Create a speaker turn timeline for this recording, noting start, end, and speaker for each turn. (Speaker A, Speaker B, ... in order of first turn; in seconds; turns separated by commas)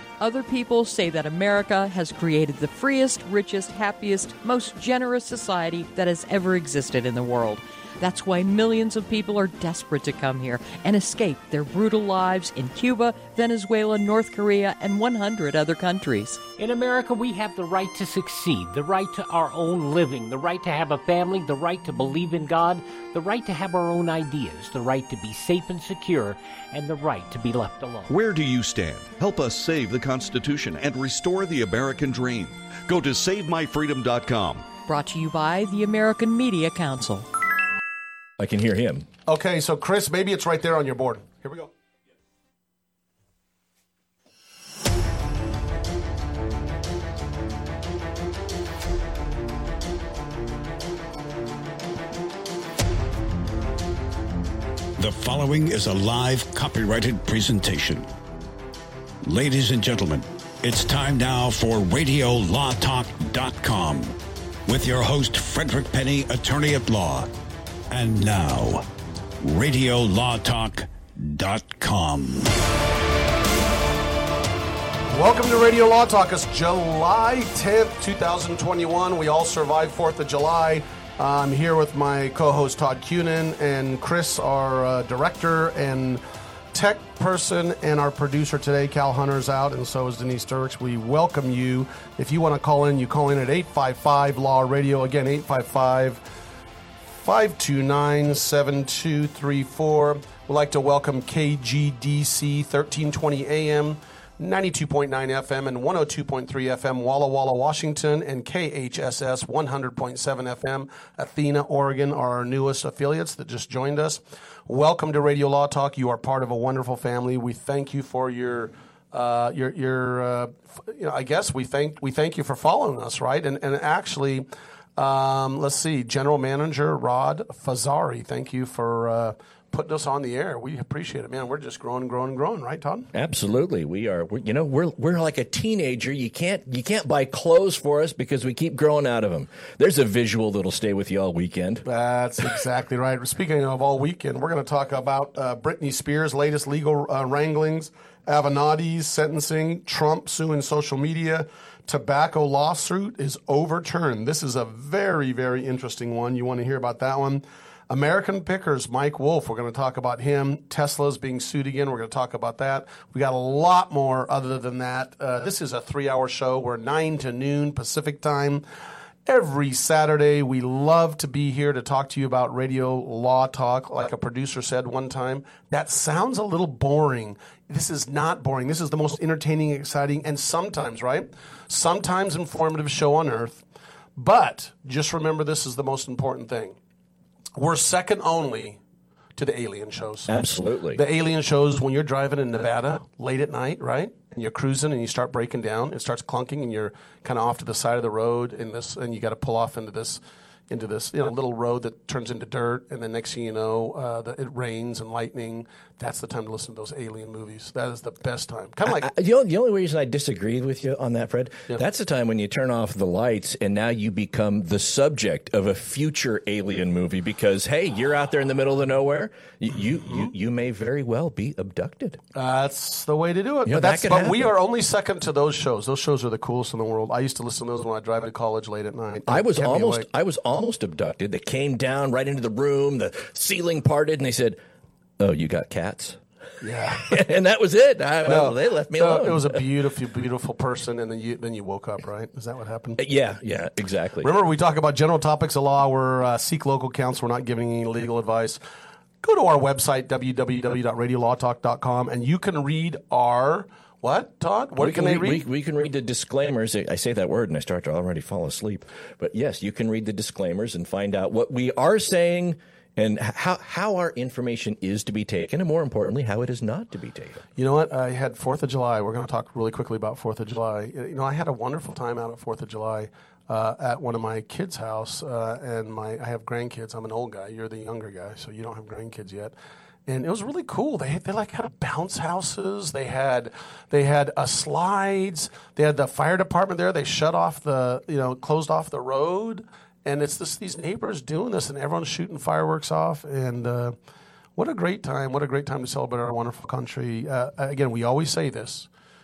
Speaker A: 0.2-16.4, Speaker B: 16.6-28.1, Speaker C: 28.1-34.7, Speaker A: 34.9-37.2, Speaker D: 38.4-39.1, Speaker E: 39.3-41.7, Speaker F: 55.0-58.1, Speaker F: 59.2-64.2, Speaker F: 64.7-67.3, Speaker F: 67.9-68.8, Speaker F: 69.4-72.5, Speaker E: 75.1-96.2, Speaker E: 97.2-133.1, Speaker D: 133.1-141.8, Speaker E: 141.8-168.6, Speaker E: 169.2-183.6, Speaker E: 184.2-186.8, Speaker E: 187.6-188.8, Speaker E: 189.4-209.1, Speaker D: 190.3-191.0, Speaker D: 208.8-222.2, Speaker E: 222.3-230.1, Speaker D: 223.6-224.5, Speaker D: 229.2-234.6, Speaker D: 235.2-236.2, Speaker E: 236.6-237.2, Speaker D: 237.0-239.6, Speaker E: 238.2-243.0, Speaker D: 243.0-244.3, Speaker E: 244.2-248.6, Speaker E: 249.2-255.4, Speaker D: 254.8-267.4, Speaker E: 267.6-279.5, Speaker E: 280.1-293.9, Speaker E: 294.6-298.9